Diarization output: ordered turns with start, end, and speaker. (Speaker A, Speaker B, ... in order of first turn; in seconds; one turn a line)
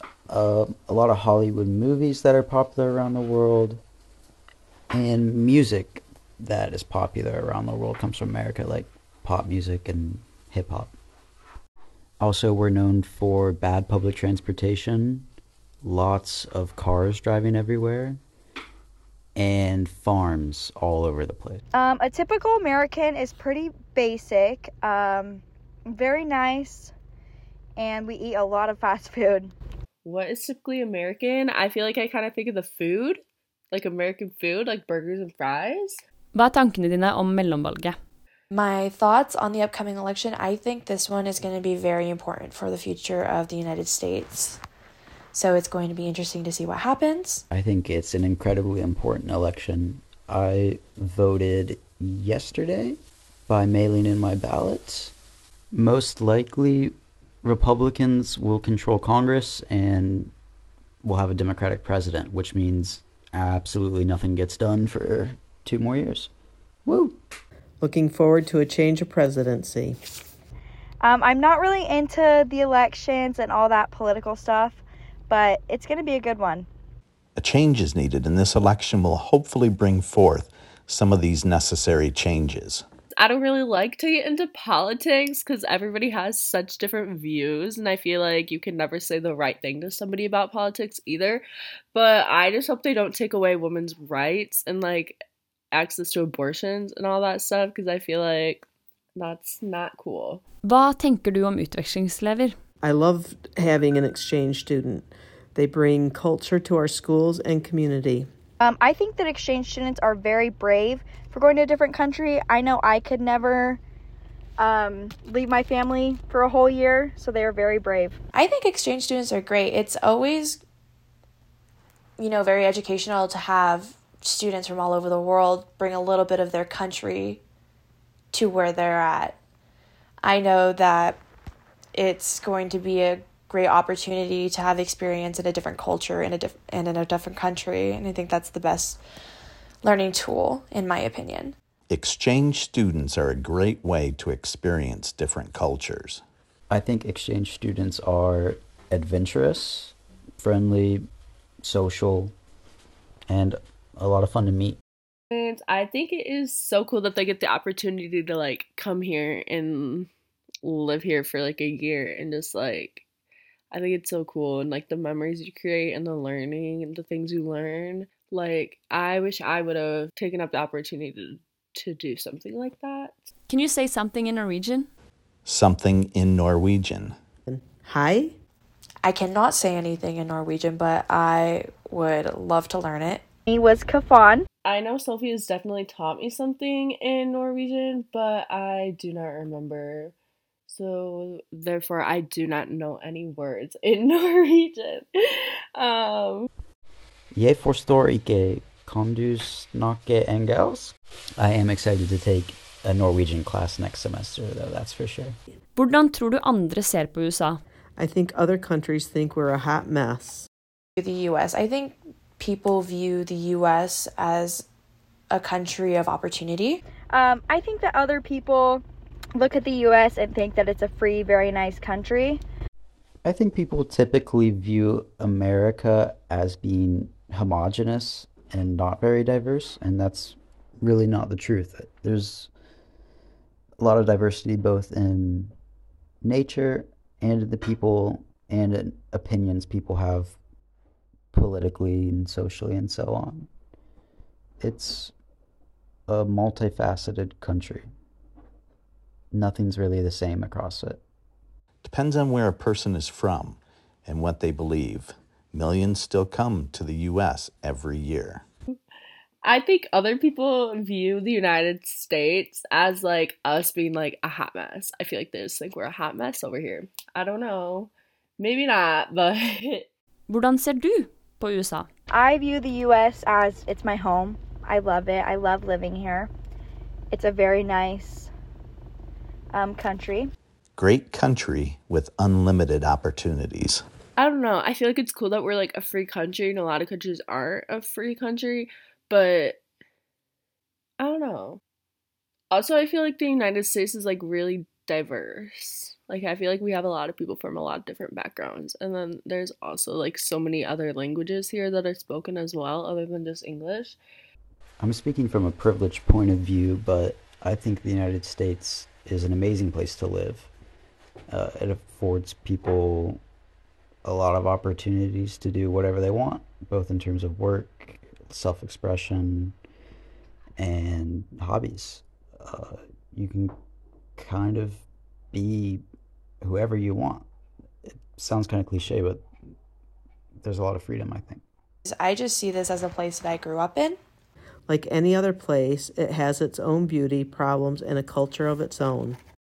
Speaker A: 0.3-3.8
Speaker A: 4.9-10.9
Speaker A: 12.2-15.3
Speaker A: 15.8-18.2
Speaker A: 19.4-21.6
Speaker B: 21.7-26.9
Speaker B: 27.8-29.5
Speaker C: 30.0-36.0
Speaker D: 36.3-38.0
Speaker E: 38.5-44.6
Speaker E: 45.3-47.5
Speaker A: 47.5-55.1
Speaker A: 55.7-60.3
Speaker A: 61.0-66.3
Speaker A: 66.8-67.2
Speaker F: 67.8-70.0
Speaker B: 71.0-76.7
Speaker G: 77.3-82.8
Speaker C: 83.2-95.2
Speaker C: 95.7-100.4
Speaker D: 100.6-102.5
Speaker F: 102.8-108.3
Speaker B: 108.6-113.8
Speaker B: 114.6-118.2
Speaker E: 118.3-120.6
Speaker E: 122.2-127.4
Speaker E: 128.3-129.4
Speaker E: 130.2-131.2
Speaker E: 131.9-139.0
Speaker E: 139.8-141.6
Speaker G: 141.9-146.2
Speaker A: 146.7-151.1
Speaker A: 151.6-152.3
Speaker A: 153.3-154.8
Speaker C: 155.3-160.1
Speaker C: 160.6-163.0
Speaker C: 163.7-173.3
Speaker D: 173.5-174.9
Speaker G: 175.4-177.2
Speaker F: 177.4-178.3
Speaker E: 179.0-183.2
Speaker B: 183.5-184.5
Speaker C: 184.6-190.1
Speaker C: 190.7-196.5
Speaker A: 197.3-205.4
Speaker D: 205.8-207.6
Speaker F: 208.0-210.5
Speaker E: 211.0-214.7
Speaker E: 215.3-216.8
Speaker B: 217.1-218.8
Speaker B: 219.3-222.4
Speaker A: 223.2-232.5
Speaker A: 233.8-235.5
Speaker A: 236.2-240.4
Speaker A: 241.3-243.5
Speaker A: 244.6-245.1
Speaker A: 246.1-247.9
Speaker A: 249.3-251.0
Speaker G: 251.8-258.4
Speaker C: 259.4-269.9
Speaker D: 270.3-271.9
Speaker B: 272.1-276.3
Speaker B: 277.1-278.3
Speaker B: 279.5-280.3
Speaker G: 280.8-283.8
Speaker C: 284.1-289.6
Speaker C: 291.0-291.6
Speaker C: 292.5-304.0
Speaker A: 304.8-310.5
Speaker A: 311.3-313.2
Speaker A: 314.0-319.6
Speaker A: 320.6-323.5
Speaker A: 324.1-325.8
Speaker A: 326.4-327.2
Speaker A: 327.9-329.2
Speaker A: 330.4-331.4
Speaker E: 331.8-334.0
Speaker F: 334.7-339.2